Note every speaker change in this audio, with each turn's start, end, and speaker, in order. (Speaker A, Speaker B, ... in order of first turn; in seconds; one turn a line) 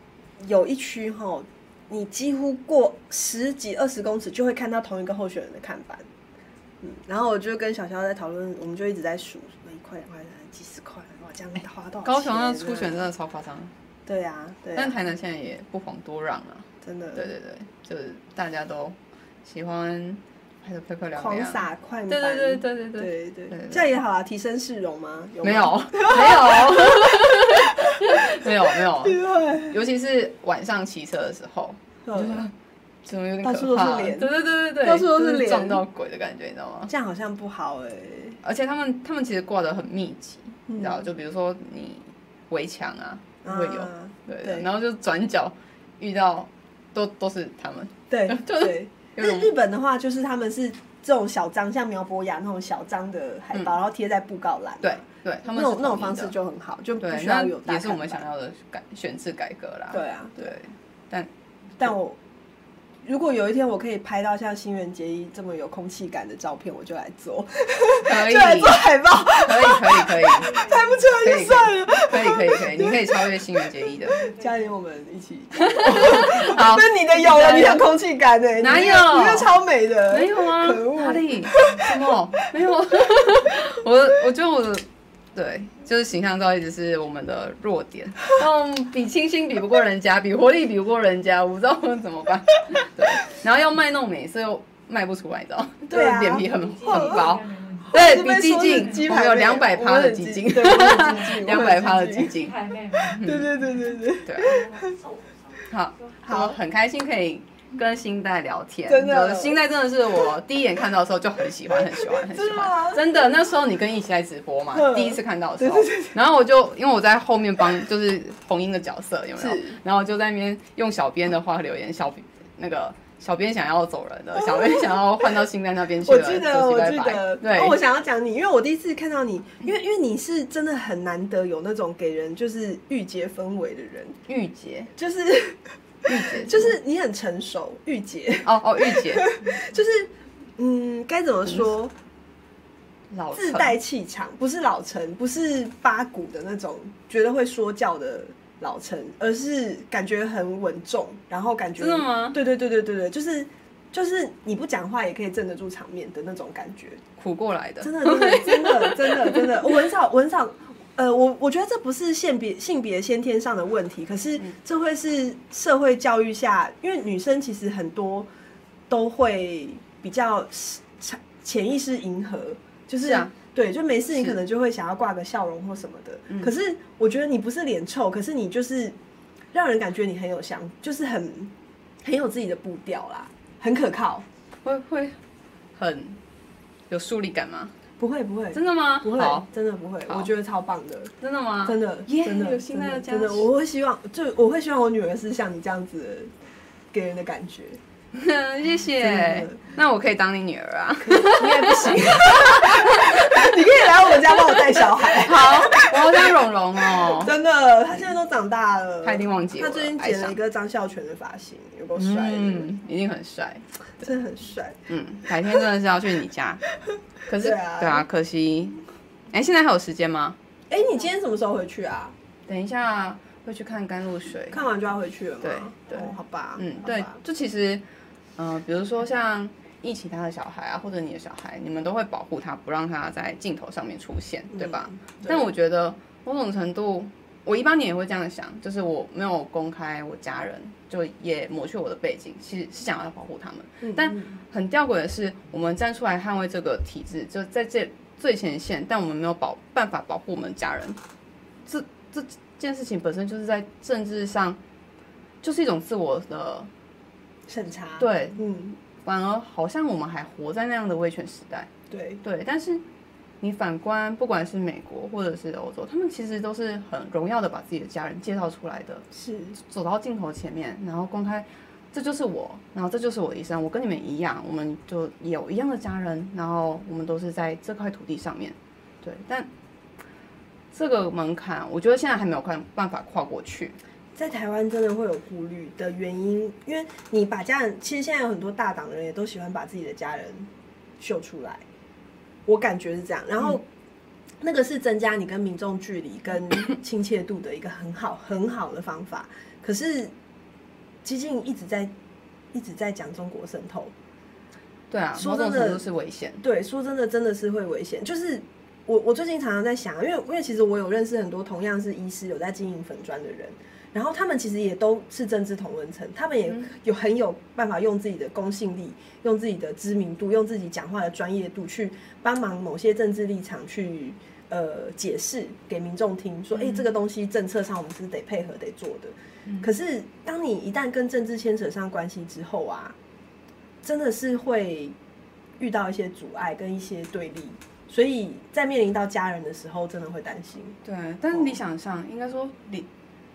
Speaker A: 0.4-6.1
Speaker A: 6.8-13.1
Speaker B: 12.0-13.7
Speaker A: 14.1-14.9
Speaker B: 14.8-23.8
Speaker A: 16.8-17.3
Speaker A: 21.1-29.8
Speaker B: 25.4-32.5
Speaker A: 32.1-32.5
Speaker B: 33.0-36.9
Speaker A: 33.4-35.8
Speaker A: 36.9-38.4
Speaker B: 38.4-49.5
Speaker A: 40.7-41.0
Speaker A: 43.4-44.7
Speaker A: 48.1-58.2
Speaker B: 54.8-56.3
Speaker B: 57.0-61.3
Speaker A: 59.9-60.4
Speaker A: 61.8-62.2
Speaker A: 63.0-73.6
Speaker B: 68.0-74.2
Speaker C: 70.2-71.1
Speaker C: 74.0-74.7
Speaker A: 74.2-82.0
Speaker B: 75.6-77.9
Speaker B: 78.6-79.6
Speaker B: 80.1-103.5
Speaker A: 95.9-97.2
Speaker C: 96.4-98.0
Speaker A: 97.9-102.3
Speaker C: 98.5-98.9
Speaker C: 100.8-101.4
Speaker C: 102.3-105.7
Speaker A: 103.1-105.0
Speaker B: 104.2-104.6
Speaker B: 105.7-127.8
Speaker A: 106.2-106.6
Speaker A: 108.9-109.6
Speaker A: 111.7-113.2
Speaker A: 114.7-116.2
Speaker A: 119.4-119.8
Speaker A: 124.4-125.0
Speaker A: 126.0-134.2
Speaker B: 134.3-134.9
Speaker A: 135.0-141.9
Speaker B: 136.1-136.8
Speaker B: 138.4-139.4
Speaker B: 143.1-143.8
Speaker A: 143.3-157.0
Speaker B: 151.8-152.4
Speaker B: 157.2-159.6
Speaker A: 157.8-168.3
Speaker A: 168.9-179.0
Speaker B: 173.0-173.3
Speaker A: 179.5-184.3
Speaker B: 184.6-185.2
Speaker B: 185.8-186.2
Speaker B: 186.9-187.8
Speaker A: 188.0-191.1
Speaker B: 188.5-189.5
Speaker B: 191.2-193.5
Speaker A: 191.6-196.3
Speaker A: 196.9-197.8
Speaker B: 198.1-203.5
Speaker A: 199.0-199.6
Speaker A: 201.0-212.7
Speaker B: 204.3-207.3
Speaker B: 209.0-210.4
Speaker B: 211.9-213.7
Speaker A: 214.0-214.8
Speaker B: 214.9-216.7
Speaker B: 217.3-220.4
Speaker A: 217.4-218.1
Speaker A: 220.7-222.2
Speaker B: 222.5-224.6
Speaker A: 224.5-227.2
Speaker B: 225.4-227.8
Speaker B: 228.4-251.0
Speaker A: 234.6-235.5
Speaker A: 243.8-244.3
Speaker B: 251.7-254.6
Speaker B: 255.4-256.7
Speaker A: 257.5-258.8
Speaker B: 258.0-258.4
Speaker B: 258.9-261.7
Speaker A: 261.9-262.2
Speaker B: 262.2-262.8
Speaker B: 263.4-269.1
Speaker A: 269.1-269.6
Speaker B: 269.6-279.5
Speaker B: 280.7-283.8
Speaker A: 284.1-291.6
Speaker A: 292.5-293.6
Speaker A: 294.4-300.1
Speaker A: 301.0-301.9
Speaker A: 302.5-303.9
Speaker B: 304.9-306.4
Speaker A: 305.2-305.8
Speaker A: 306.4-333.0
Speaker B: 326.6-326.9
Speaker A: 333.8-335.0
Speaker A: 335.6-340.8
Speaker B: 340.8-342.9
Speaker A: 341.3-341.6